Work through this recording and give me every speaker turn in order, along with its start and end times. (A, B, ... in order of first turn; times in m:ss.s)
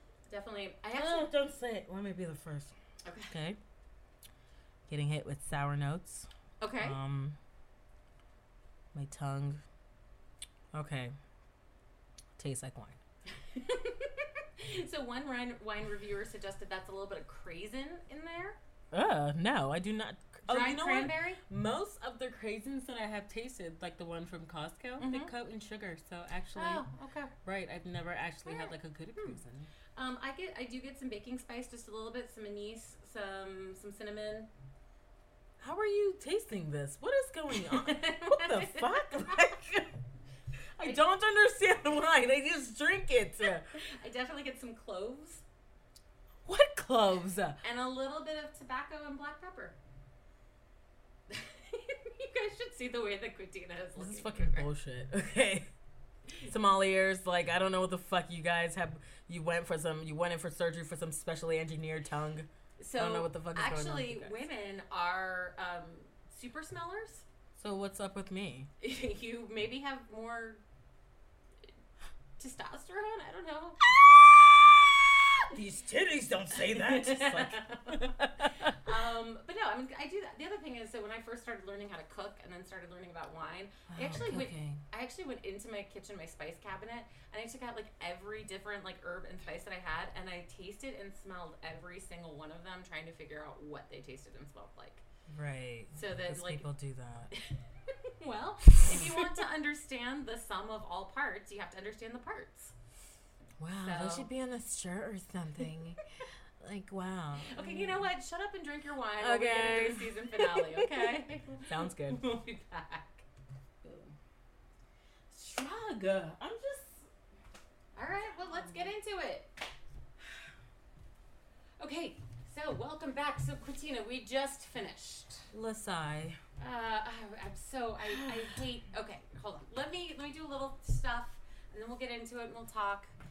0:00.3-0:01.3 A
0:00.9-0:02.8 B
0:03.0-0:03.3 A
0:03.3-0:03.6 B
0:04.9-0:06.3 B
0:06.6-0:07.0 A
0:06.8-0:07.4 B
0:08.9-0:09.6 B
0:10.7-0:11.1 B
0:12.4-0:13.0 B
0:13.4-0:18.6 A
0:18.9-0:26.9 B
0:20.4-0:21.4 A
0:25.0-0:25.3 A
0:26.5-0:27.3 A
0:27.4-0:29.7 B
0:28.4-0:29.4 A
0:30.0-0:34.5 A
0:35.6-0:40.0 B
0:37.5-0:39.5 A
0:40.8-0:43.7 B
0:43.7-0:45.4 A
0:46.4-0:47.6 B
0:47.6-0:49.8 A
0:51.3-0:54.7 A
0:54.0-0:55.7 B
0:56.4-1:04.4 B
1:02.8-1:07.2 A
1:07.5-1:08.7 B
1:08.8-1:10.6 A
1:12.4-1:13.9 A
1:13.9-1:18.8 B
1:16.6-1:18.1 A
1:18.6-1:35.0 A
1:23.9-1:24.8 B
1:35.3-1:37.3 B
1:35.9-1:36.7 A
1:37.4-1:42.7 A
1:38.8-1:39.3 B
1:43.6-1:46.0 B
1:43.8-1:44.3 A
1:46.6-1:48.0 B
1:47.4-1:53.2 A
1:49.2-1:52.2 B
1:53.8-1:54.1 B
1:55.3-1:57.1 B
1:57.9-1:59.6 A
1:58.4-1:58.9 B
2:01.8-2:05.5 A
2:05.5-2:06.4 B
2:06.6-2:13.1 A
2:08.0-2:08.6 B